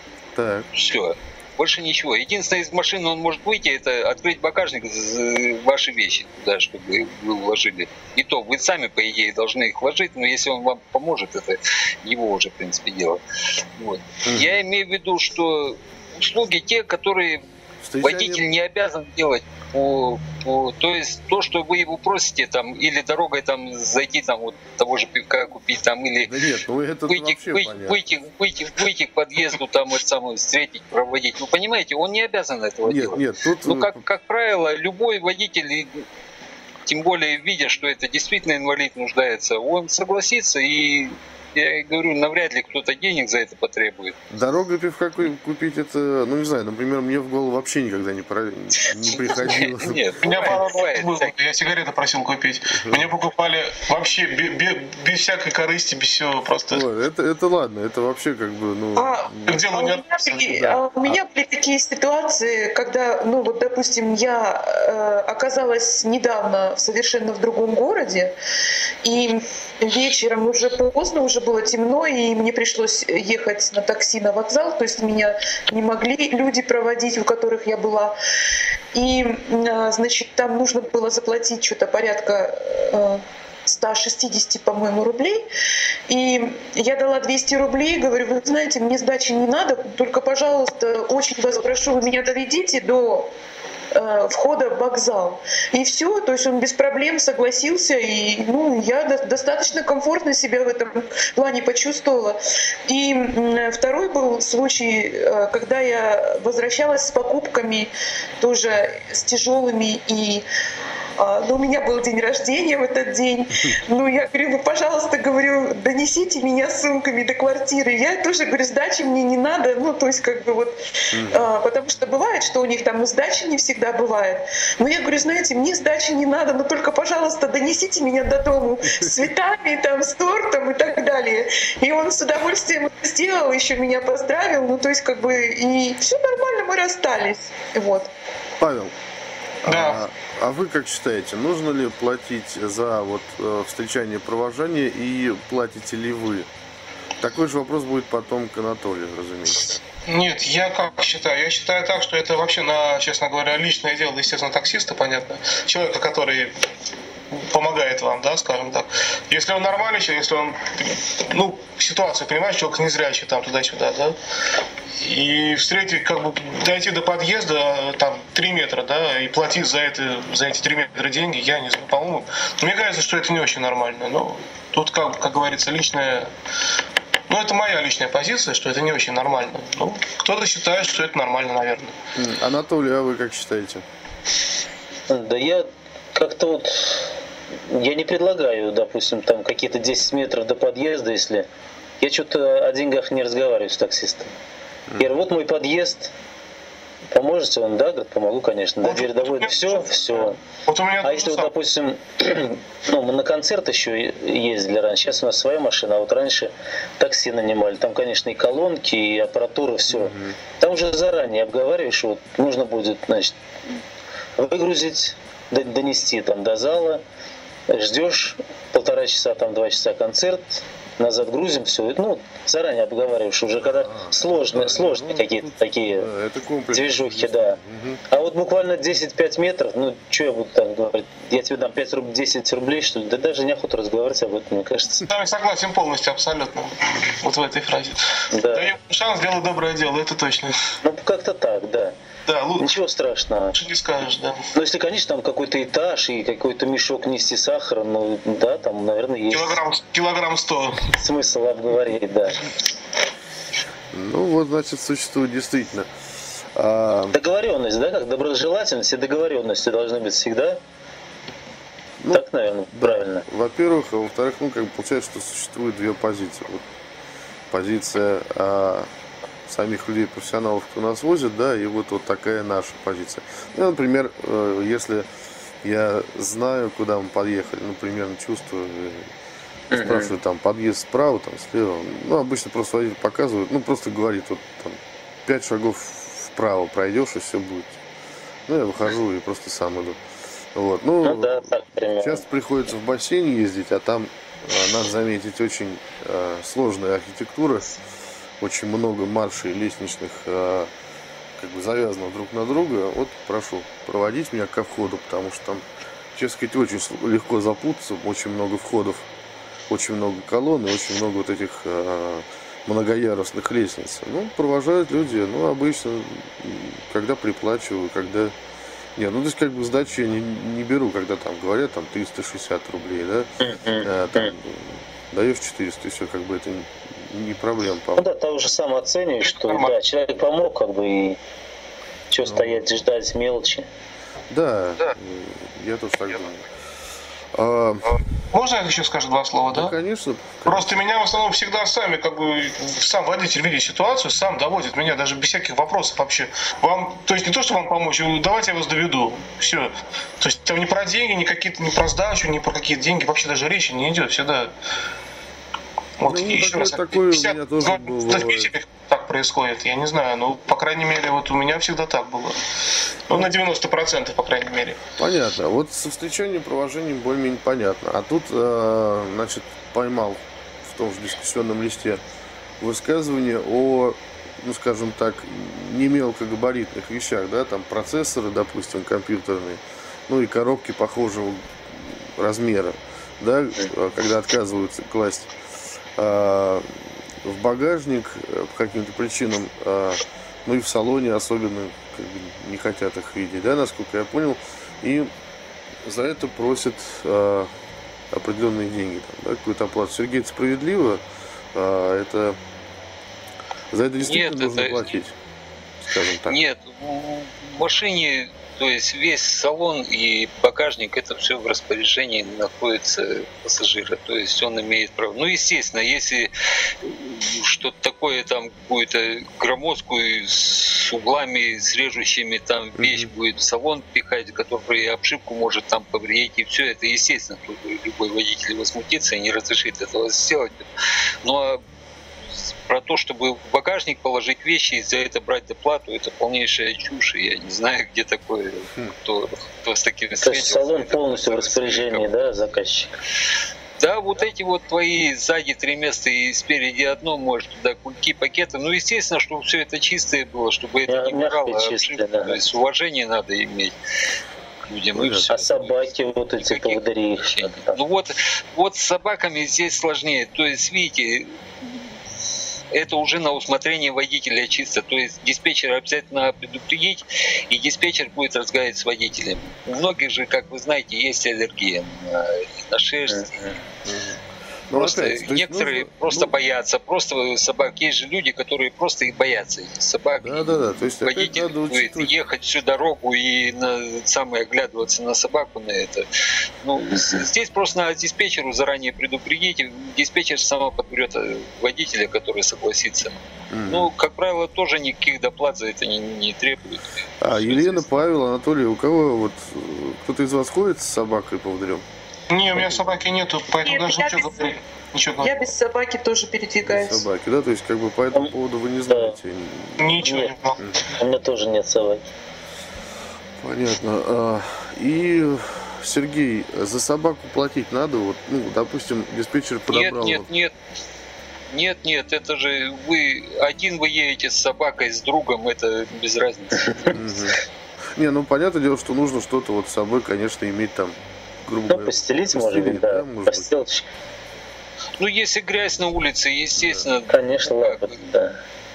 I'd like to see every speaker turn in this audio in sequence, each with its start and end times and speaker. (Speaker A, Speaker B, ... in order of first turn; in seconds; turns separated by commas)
Speaker A: 0.3-0.7, Speaker B: 0.7-13.2, Speaker B: 13.8-17.4, Speaker A: 14.2-14.5, Speaker A: 17.8-18.4, Speaker B: 18.0-26.4, Speaker A: 26.2-28.0, Speaker B: 27.1-36.0, Speaker A: 32.8-34.0, Speaker B: 36.9-44.1, Speaker A: 44.3-50.4, Speaker B: 49.0-51.3, Speaker C: 50.2-56.8, Speaker A: 52.7-53.1, Speaker A: 56.7-59.6, Speaker D: 59.0-68.3, Speaker C: 59.5-60.6, Speaker A: 60.4-61.2, Speaker D: 69.0-78.1, Speaker D: 78.9-85.4, Speaker D: 86.1-93.3, Speaker D: 93.9-110.4, Speaker D: 111.2-138.1, Speaker A: 121.1-121.5, Speaker A: 138.6-138.9, Speaker A: 139.6-146.5, Speaker C: 139.7-140.0, Speaker A: 147.2-149.8, Speaker C: 150.1-156.5, Speaker C: 157.3-164.2, Speaker C: 165.0-176.3, Speaker C: 177.3-181.9, Speaker A: 182.2-183.8, Speaker E: 185.1-187.1, Speaker E: 187.7-191.5, Speaker E: 192.0-194.3, Speaker E: 195.0-196.1, Speaker E: 197.1-200.4, Speaker C: 198.8-201.5, Speaker E: 201.0-213.4, Speaker A: 209.9-210.4, Speaker E: 214.4-217.0, Speaker E: 217.7-226.1, Speaker A: 223.6-228.0, Speaker E: 226.7-235.0, Speaker C: 235.1-240.7, Speaker E: 238.3-238.7, Speaker E: 240.8-242.0, Speaker C: 242.3-242.7, Speaker E: 242.6-243.6, Speaker C: 243.5-244.4, Speaker E: 244.5-249.6, Speaker C: 249.3-250.9, Speaker E: 251.0-252.4, Speaker A: 253.9-255.9, Speaker A: 256.5-257.2, Speaker E: 257.1-260.6, Speaker A: 262.0-266.6, Speaker E: 262.1-263.2, Speaker A: 267.5-268.9, Speaker A: 269.5-275.1, Speaker A: 275.6-279.1, Speaker E: 279.7-280.1, Speaker A: 279.7-287.8, Speaker A: 288.5-290.0, Speaker A: 290.5-297.7, Speaker E: 291.0-292.2, Speaker A: 298.4-300.7, Speaker A: 301.4-309.1, Speaker A: 309.7-318.3, Speaker A: 319.0-323.3, Speaker E: 323.4-324.3, Speaker A: 323.8-328.1, Speaker E: 328.0-331.2, Speaker C: 329.2-329.7, Speaker E: 332.1-333.7, Speaker A: 332.2-332.6, Speaker A: 334.3-336.5, Speaker A: 337.3-337.9, Speaker C: 338.3-339.7, Speaker A: 339.5-340.7, Speaker C: 340.4-354.5, Speaker C: 356.0-362.4, Speaker A: 356.0-358.5, Speaker C: 363.1-364.8, Speaker A: 365.0-372.0, Speaker A: 372.6-385.3, Speaker A: 386.0-386.7, Speaker A: 387.2-395.1, Speaker A: 395.8-397.5, Speaker A: 398.1-401.0, Speaker A: 401.5-402.4, Speaker A: 403.7-405.1, Speaker B: 404.0-404.9, Speaker A: 405.8-406.4, Speaker B: 406.2-416.3, Speaker B: 416.8-430.6, Speaker A: 422.8-423.1, Speaker B: 431.2-431.6, Speaker B: 432.3-442.1, Speaker E: 440.2-442.9, Speaker B: 443.8-453.7, Speaker E: 450.9-452.4, Speaker B: 454.6-461.4, Speaker A: 454.9-455.2, Speaker E: 455.2-457.8, Speaker B: 462.7-473.6, Speaker E: 473.1-473.4, Speaker A: 473.9-476.3, Speaker B: 474.7-486.0, Speaker A: 480.2-482.1, Speaker B: 486.6-497.8, Speaker E: 486.8-487.2, Speaker A: 493.5-493.9, Speaker A: 497.2-501.8, Speaker C: 502.3-505.4, Speaker D: 503.6-504.5, Speaker D: 505.2-507.0, Speaker A: 506.6-510.0, Speaker E: 508.9-509.1, Speaker C: 509.8-510.6, Speaker E: 510.0-510.4, Speaker E: 510.9-512.1, Speaker A: 513.4-520.3, Speaker B: 519.7-520.5, Speaker B: 521.5-527.0, Speaker E: 526.6-526.9, Speaker A: 526.9-527.4, Speaker A: 527.9-533.5, Speaker E: 531.7-533.9, Speaker B: 535.0-538.1, Speaker A: 536.5-536.9, Speaker E: 537.1-538.4